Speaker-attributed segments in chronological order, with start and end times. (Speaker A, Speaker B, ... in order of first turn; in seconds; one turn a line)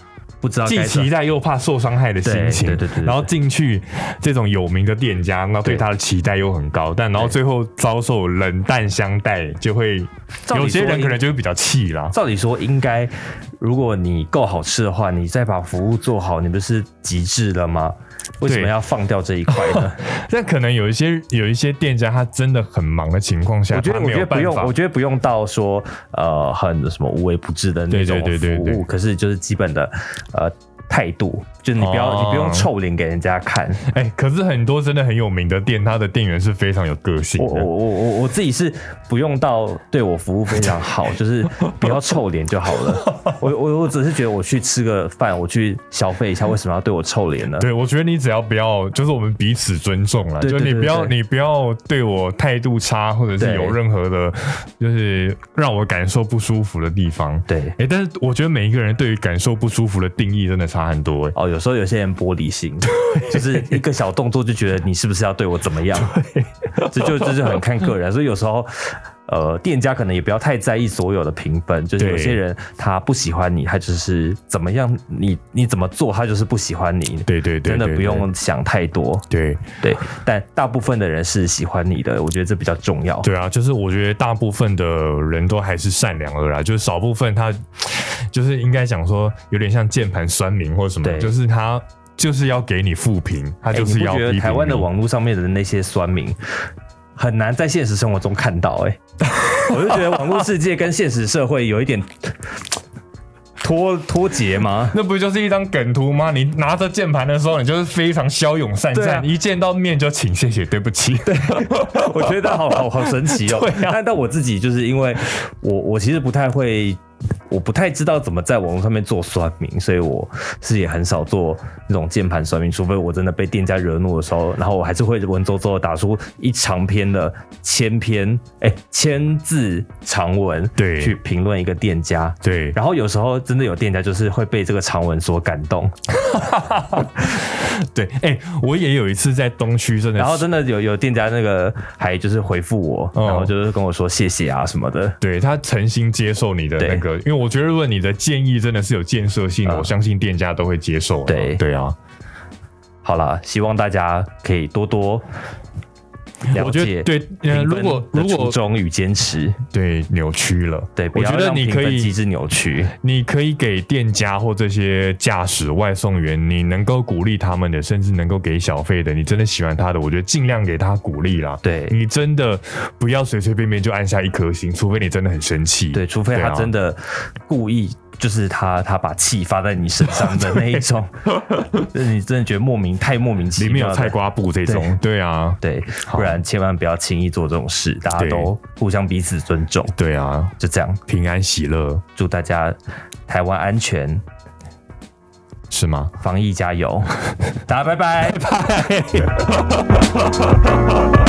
Speaker A: 0.4-1.1
Speaker B: 0.6-12.2
Speaker A: 2.2-3.3
Speaker A: 10.4-11.2
Speaker A: 12.1-20.0
Speaker B: 18.4-18.7
Speaker B: 19.5-24.7
Speaker A: 23.7-33.8
Speaker B: 27.9-28.8
Speaker B: 31.8-32.7
Speaker B: 33.9-37.7
Speaker A: 37.4-47.6
Speaker B: 42.9-43.4
Speaker B: 47.6-61.3
Speaker A: 50.4-51.1
Speaker A: 53.4-53.8
Speaker A: 57.5-57.8
Speaker A: 61.3-66.2
Speaker B: 62.9-63.8
Speaker B: 65.9-67.6
Speaker A: 66.9-79.3
Speaker B: 72.0-72.4
Speaker B: 77.2-78.3
Speaker B: 79.3-79.7
Speaker A: 79.8-83.3
Speaker B: 83.2-94.9
Speaker A: 91.0-91.3
Speaker A: 93.7-96.4
Speaker A: 97.2-99.0
Speaker B: 99.2-100.4
Speaker A: 99.6-102.3
Speaker A: 103.6-105.0
Speaker B: 104.9-114.0
Speaker A: 108.9-109.3
Speaker A: 111.2-135.9
Speaker B: 130.8-131.2
Speaker B: 132.4-132.8
Speaker B: 136.1-140.5
Speaker A: 140.2-145.2
Speaker B: 143.1-143.5
Speaker B: 145.2-151.9
Speaker A: 146.8-147.0
Speaker A: 149.6-149.9
Speaker A: 151.3-151.6
Speaker A: 153.0-155.2
Speaker B: 156.5-158.6
Speaker A: 156.5-159.6
Speaker B: 159.7-162.1
Speaker A: 161.0-162.9
Speaker B: 162.9-176.7
Speaker A: 171.6-172.0
Speaker A: 175.9-181.1
Speaker B: 180.0-180.8
Speaker B: 181.4-181.8
Speaker A: 181.7-184.9
Speaker B: 183.6-186.4
Speaker A: 185.6-189.9
Speaker B: 188.2-188.5
Speaker B: 189.9-190.5
Speaker A: 190.6-191.0
Speaker B: 191.1-192.0
Speaker A: 192.1-192.8
Speaker A: 193.3-194.2
Speaker B: 195.7-196.1
Speaker A: 196.2-198.4
Speaker B: 198.2-200.5